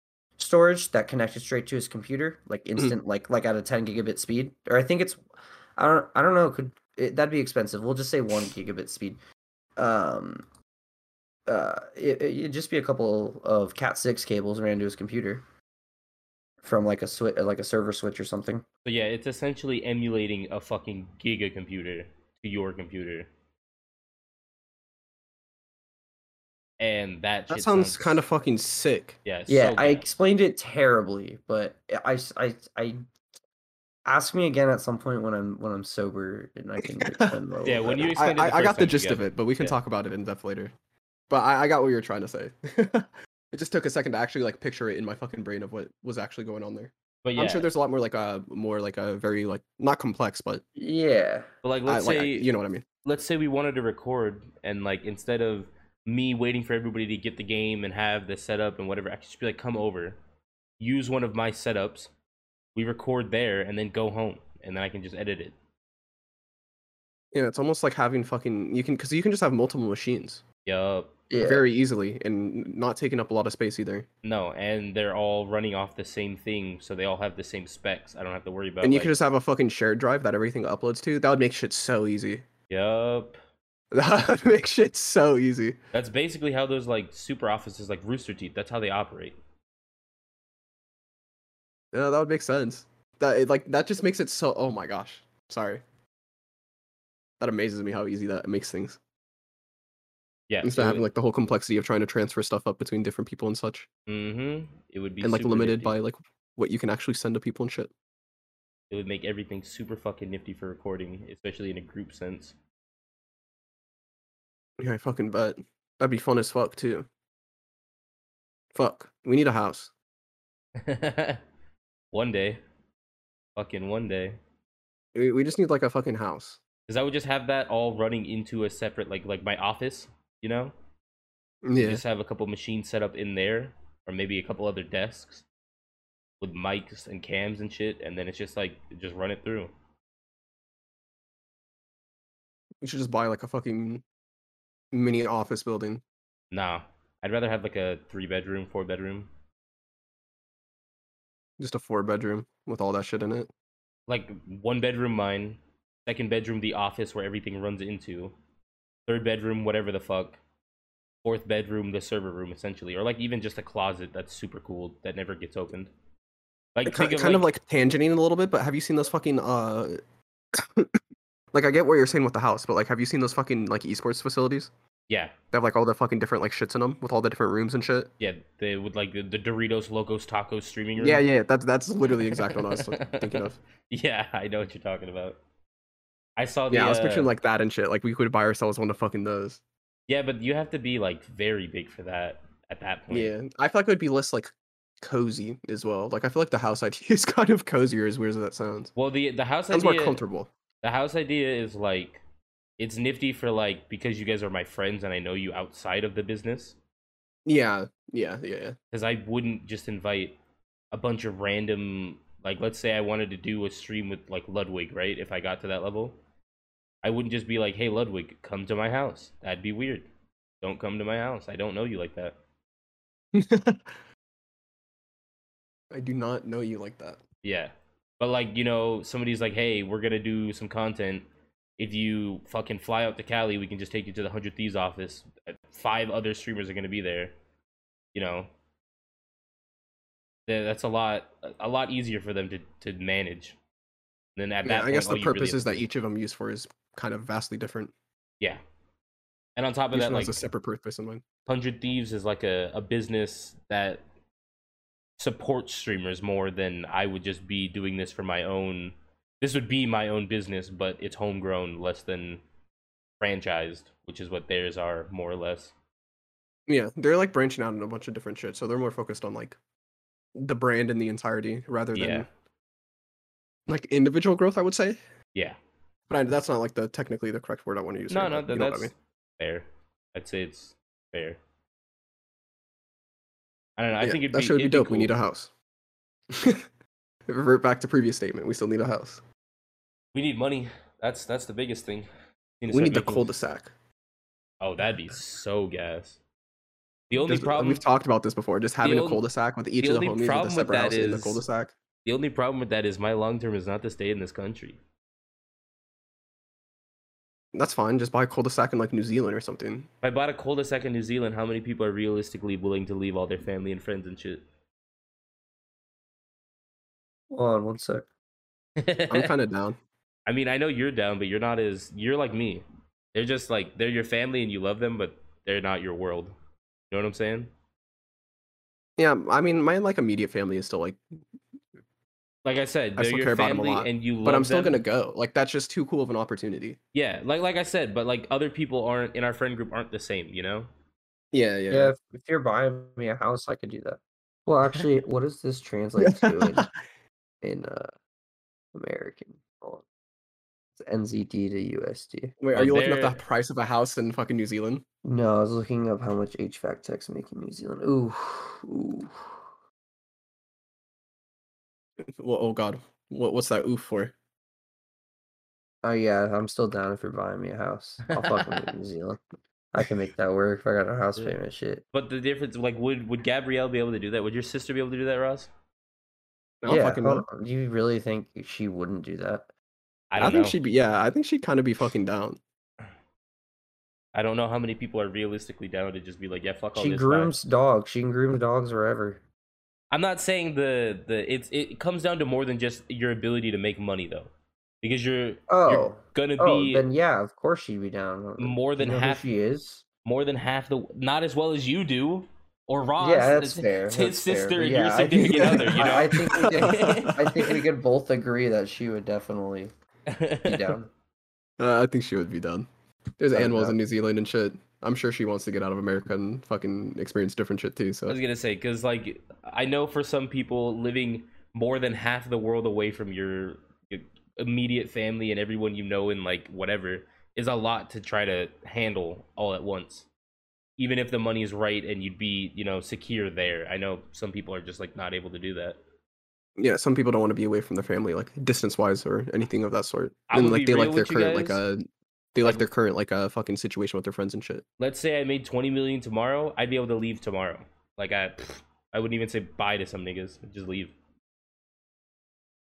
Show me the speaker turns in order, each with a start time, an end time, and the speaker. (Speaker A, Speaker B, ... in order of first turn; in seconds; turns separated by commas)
Speaker A: 0.4-5.2, Speaker A: 5.8-9.2, Speaker A: 9.8-10.5, Speaker A: 11.5-15.4, Speaker A: 16.6-18.7, Speaker B: 18.9-23.3, Speaker B: 26.8-28.2, Speaker C: 27.5-29.2, Speaker B: 29.2-30.1, Speaker A: 29.5-33.0, Speaker A: 34.1-38.2, Speaker C: 36.8-37.4, Speaker B: 37.6-39.8, Speaker C: 37.9-40.7, Speaker C: 41.3-50.6, Speaker B: 47.2-47.7, Speaker A: 50.8-51.5, Speaker B: 51.6-52.5, Speaker C: 51.9-52.8, Speaker B: 53.0-60.2, Speaker B: 60.8-62.1, Speaker B: 62.8-65.6, Speaker C: 67.3-70.4, Speaker B: 70.7-71.2, Speaker A: 71.3-71.7, Speaker C: 71.4-74.1, Speaker B: 74.2-79.1, Speaker C: 78.8-82.5, Speaker B: 82.7-83.4, Speaker C: 83.9-85.8, Speaker B: 85.9-89.4, Speaker C: 91.9-95.8, Speaker C: 97.4-99.0, Speaker B: 100.5-101.1, Speaker C: 100.6-103.9, Speaker B: 104.1-106.0, Speaker C: 105.2-107.9, Speaker B: 108.9-112.5, Speaker C: 114.8-117.1, Speaker C: 118.8-119.9, Speaker B: 120.8-121.4, Speaker B: 122.1-122.6, Speaker B: 123.6-124.4, Speaker C: 125.2-126.6, Speaker B: 126.9-130.7, Speaker C: 131.6-132.0, Speaker B: 131.8-135.4, Speaker B: 136.4-139.7, Speaker C: 142.8-144.0, Speaker C: 144.9-146.0, Speaker B: 146.5-149.3, Speaker C: 151.6-153.5, Speaker B: 154.1-158.3, Speaker B: 159.1-160.4, Speaker B: 161.2-165.9, Speaker B: 166.8-167.5, Speaker C: 166.9-170.0, Speaker C: 170.5-171.0, Speaker C: 171.5-174.7, Speaker B: 175.1-175.3, Speaker C: 175.5-178.1, Speaker B: 178.2-181.2, Speaker C: 181.0-183.6, Speaker B: 182.1-185.4, Speaker B: 186.4-187.3, Speaker C: 186.7-189.6, Speaker B: 190.1-193.3, Speaker C: 193.1-194.5, Speaker C: 195.0-198.9, Speaker B: 199.0-200.2, Speaker C: 199.7-200.5, Speaker B: 200.8-202.2, Speaker B: 202.8-206.8, Speaker C: 207.5-208.8, Speaker B: 208.9-210.4, Speaker B: 210.9-216.2, Speaker B: 217.0-220.1, Speaker B: 220.6-222.4, Speaker C: 223.3-224.0, Speaker C: 225.9-227.2, Speaker B: 227.4-231.3, Speaker B: 231.8-237.3, Speaker B: 238.1-238.5, Speaker B: 240.5-243.6, Speaker B: 244.4-245.8, Speaker C: 244.7-247.9, Speaker B: 249.6-250.4, Speaker C: 249.9-251.2, Speaker B: 251.5-254.0, Speaker B: 255.2-262.4, Speaker B: 263.2-265.7, Speaker C: 266.7-269.6, Speaker C: 270.4-272.3, Speaker B: 271.9-272.3, Speaker C: 273.7-275.0, Speaker C: 276.1-278.9, Speaker B: 278.1-281.4, Speaker B: 283.8-285.1, Speaker C: 284.0-285.5, Speaker C: 286.3-286.6, Speaker C: 287.3-289.2, Speaker B: 290.1-292.1, Speaker B: 292.6-293.3, Speaker C: 292.7-293.7, Speaker B: 294.6-296.2, Speaker B: 297.1-297.8, Speaker C: 297.2-301.7, Speaker B: 298.8-299.2, Speaker B: 299.8-301.4, Speaker B: 302.1-304.8, Speaker C: 307.5-309.9, Speaker B: 310.0-314.4, Speaker A: 317.3-318.1, Speaker B: 318.8-319.3, Speaker C: 319.1-319.8, Speaker B: 320.3-326.3, Speaker B: 326.9-327.5, Speaker C: 329.0-331.0, Speaker B: 332.4-334.8, Speaker C: 333.0-336.8, Speaker B: 336.9-340.7, Speaker C: 341.3-341.9, Speaker A: 341.7-346.7, Speaker C: 346.0-346.7, Speaker A: 347.4-347.9, Speaker A: 348.7-349.9, Speaker A: 350.8-352.4, Speaker C: 352.4-354.8, Speaker B: 352.6-353.2, Speaker A: 355.0-359.4, Speaker C: 362.2-364.1, Speaker A: 365.8-369.2, Speaker B: 368.1-368.7, Speaker A: 369.7-371.8, Speaker B: 371.9-375.5, Speaker C: 376.6-377.2, Speaker A: 376.7-379.5, Speaker B: 380.1-380.6, Speaker C: 380.2-382.4, Speaker B: 384.1-387.4, Speaker A: 386.8-389.2, Speaker B: 389.9-394.3, Speaker B: 394.8-396.9, Speaker A: 395.5-399.9, Speaker B: 398.4-399.3, Speaker B: 400.1-407.5, Speaker A: 403.0-409.7, Speaker C: 405.2-407.5, Speaker B: 410.1-410.8, Speaker A: 410.4-410.9, Speaker C: 411.6-412.7, Speaker C: 413.2-418.2, Speaker A: 413.3-413.8, Speaker B: 418.1-430.1, Speaker B: 430.8-435.8, Speaker C: 436.6-444.6, Speaker B: 440.3-441.6, Speaker B: 444.8-450.9